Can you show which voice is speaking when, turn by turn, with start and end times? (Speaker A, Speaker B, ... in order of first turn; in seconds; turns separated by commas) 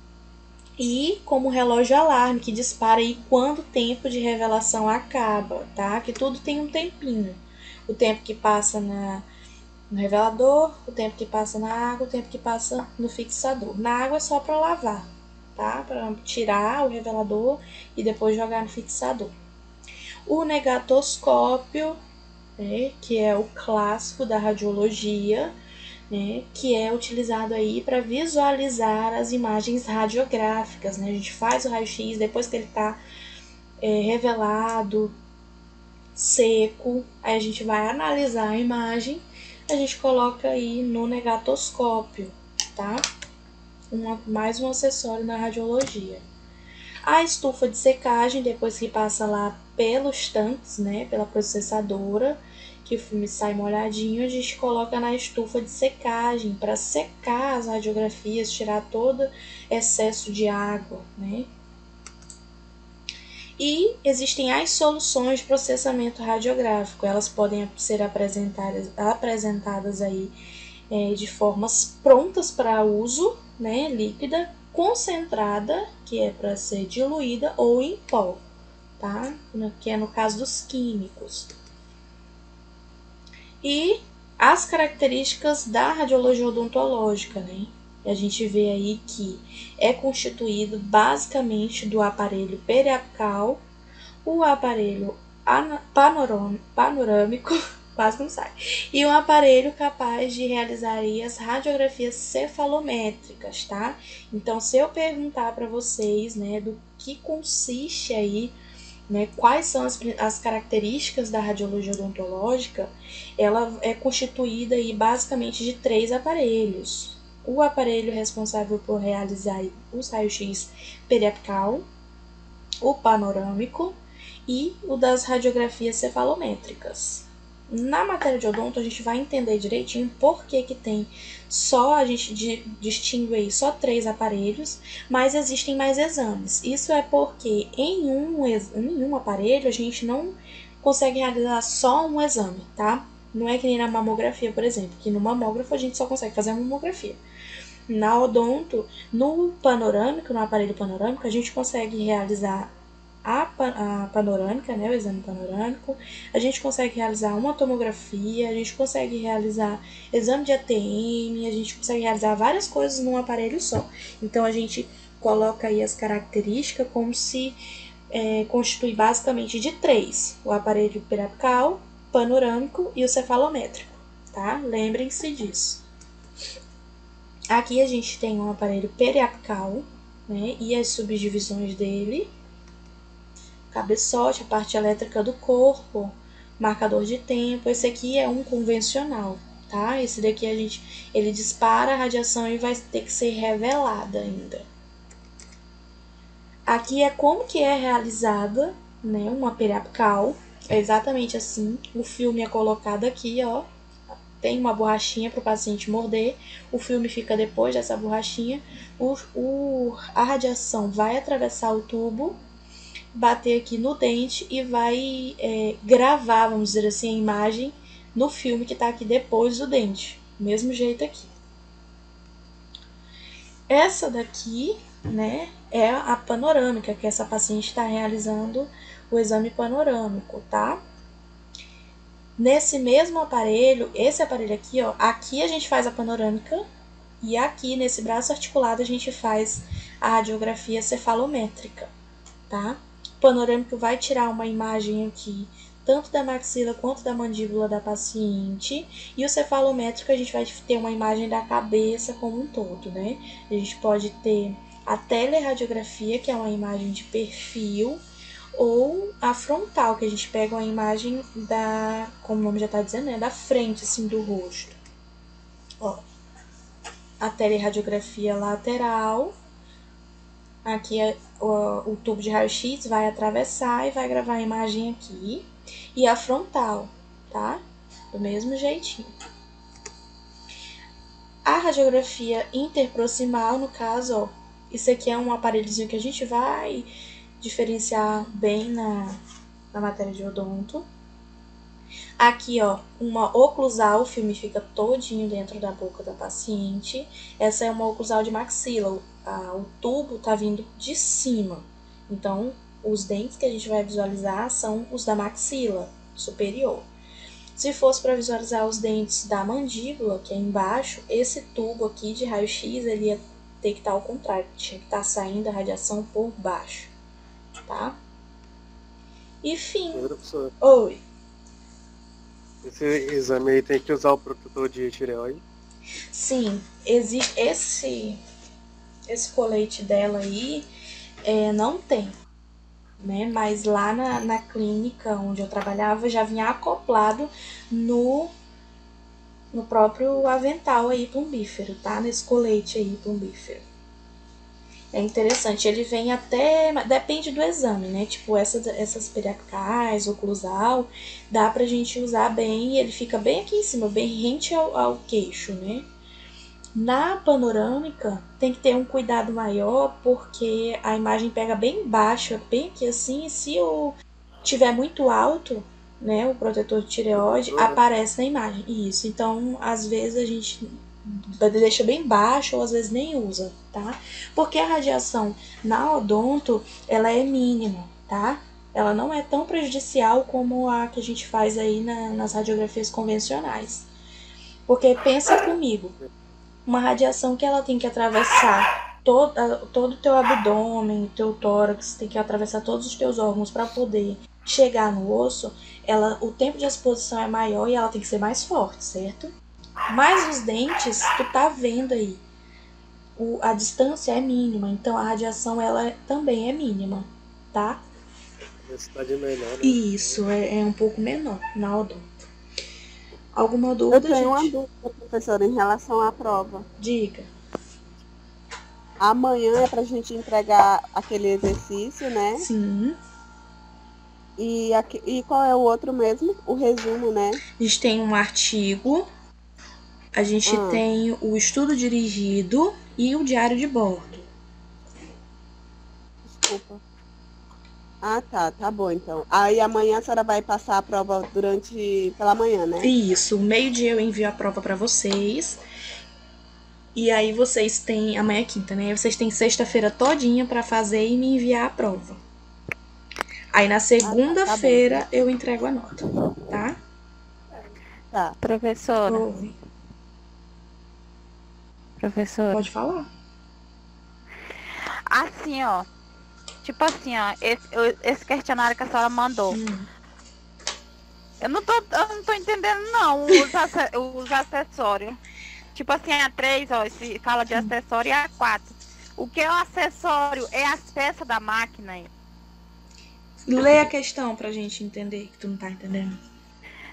Speaker A: 0.8-9.2, Speaker A: 9.9-19.3, Speaker A: 20.3-22.0, Speaker A: 22.6-25.5, Speaker A: 26.1-33.0, Speaker A: 33.8-35.1, Speaker A: 36.2-43.0, Speaker A: 43.9-46.2, Speaker A: 47.0-61.5, Speaker A: 63.6-70.3, Speaker A: 70.9-78.4, Speaker A: 79.0-81.5, Speaker A: 83.6-93.6, Speaker A: 94.2-108.5, Speaker A: 109.1-121.8, Speaker A: 122.8-124.0, Speaker A: 124.5-147.2, Speaker A: 147.9-152.7, Speaker A: 153.2-167.6, Speaker A: 168.1-175.8, Speaker A: 177.5-182.3, Speaker A: 183.7-194.7, Speaker A: 196.7-203.7, Speaker A: 204.3-212.4, Speaker A: 213.1-221.3, Speaker A: 223.7-230.8, Speaker A: 232.4-236.7, Speaker A: 237.2-241.9, Speaker A: 242.5-258.0, Speaker A: 258.6-264.8, Speaker A: 267.2-269.4, Speaker A: 270.6-277.6, Speaker A: 278.1-279.1, Speaker A: 281.5-286.9, Speaker A: 287.4-289.2, Speaker A: 289.7-290.9, Speaker A: 292.2-306.9, Speaker A: 307.6-316.9, Speaker A: 317.7-318.0, Speaker A: 319.4-320.1, Speaker B: 319.9-320.5, Speaker A: 320.6-321.0, Speaker B: 322.6-325.4, Speaker A: 326.1-328.2, Speaker A: 329.1-330.7, Speaker A: 331.2-332.1, Speaker A: 333.0-338.3, Speaker A: 339.5-343.6, Speaker A: 344.9-355.9, Speaker A: 356.8-383.9, Speaker A: 384.7-385.9, Speaker A: 386.7-399.3, Speaker A: 399.9-402.2, Speaker A: 403.2-407.8, Speaker B: 408.7-410.2, Speaker A: 409.6-412.1, Speaker A: 413.4-414.5, Speaker C: 413.9-416.7, Speaker A: 416.8-417.3, Speaker C: 419.0-422.5, Speaker A: 422.4-423.0, Speaker C: 424.4-427.4, Speaker A: 427.6-429.1, Speaker A: 430.1-434.3, Speaker C: 430.5-430.8, Speaker C: 436.3-436.8, Speaker C: 438.0-442.9, Speaker A: 442.8-445.6, Speaker A: 446.9-452.2, Speaker A: 453.5-456.8, Speaker C: 454.0-455.1, Speaker C: 458.1-458.4, Speaker D: 458.4-459.3, Speaker A: 459.1-459.6, Speaker D: 462.0-462.6, Speaker A: 462.5-463.1, Speaker D: 465.1-465.9, Speaker D: 466.6-469.6, Speaker A: 469.5-469.9, Speaker D: 471.4-475.2, Speaker D: 475.7-482.1, Speaker A: 483.5-486.2